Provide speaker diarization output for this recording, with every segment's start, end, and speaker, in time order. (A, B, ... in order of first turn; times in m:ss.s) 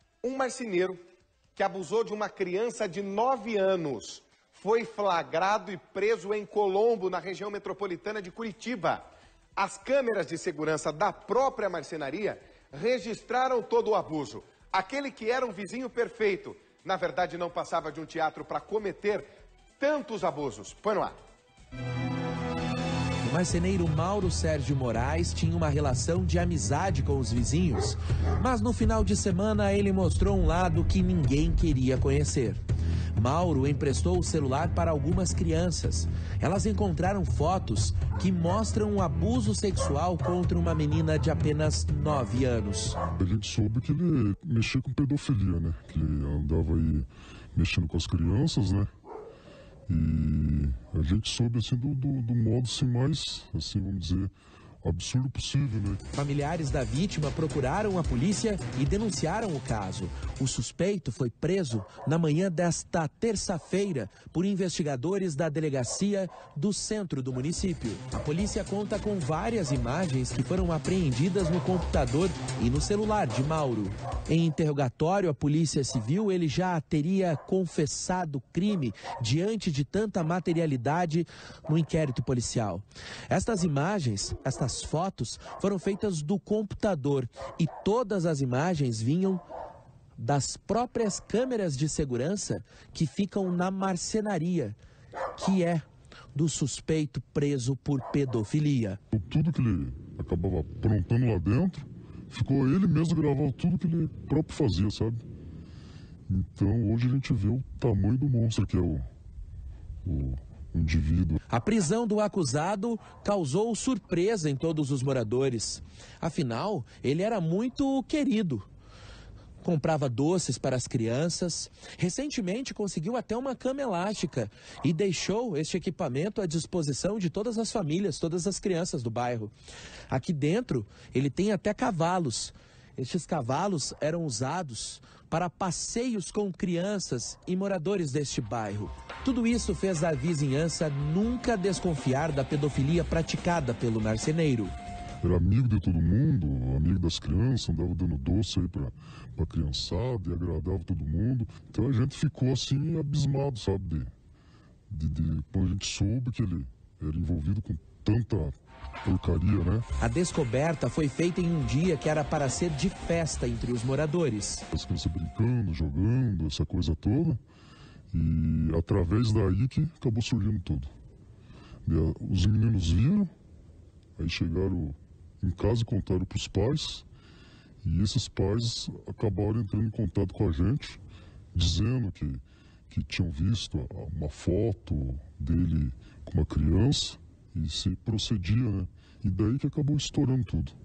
0:00.2-0:01.0 A
0:01.6-0:19.3 A
0:19.8-0:21.2 A
0:23.2-0:32.6 B
0:33.1-0:43.0 B
0:43.1-0:48.9 C
0:49.9-0:54.3 C
0:54.8-0:56.0 C
0:56.1-1:29.4 B
1:30.2-1:34.8 B
1:35.4-1:39.0 B
1:39.1-1:45.2 C
1:46.3-1:49.0 C
1:50.0-1:51.4 C
1:51.5-1:58.7 B
1:59.6-2:09.5 B
2:10.1-2:24.7 B
2:25.2-2:34.1 C
2:34.9-2:39.9 C
2:40.0-2:44.6 B
2:44.7-2:47.4 C
2:48.1-2:50.9 C
2:51.8-2:53.3 C
2:54.2-2:57.0 C
2:57.8-3:01.0 C
3:01.5-3:10.8 C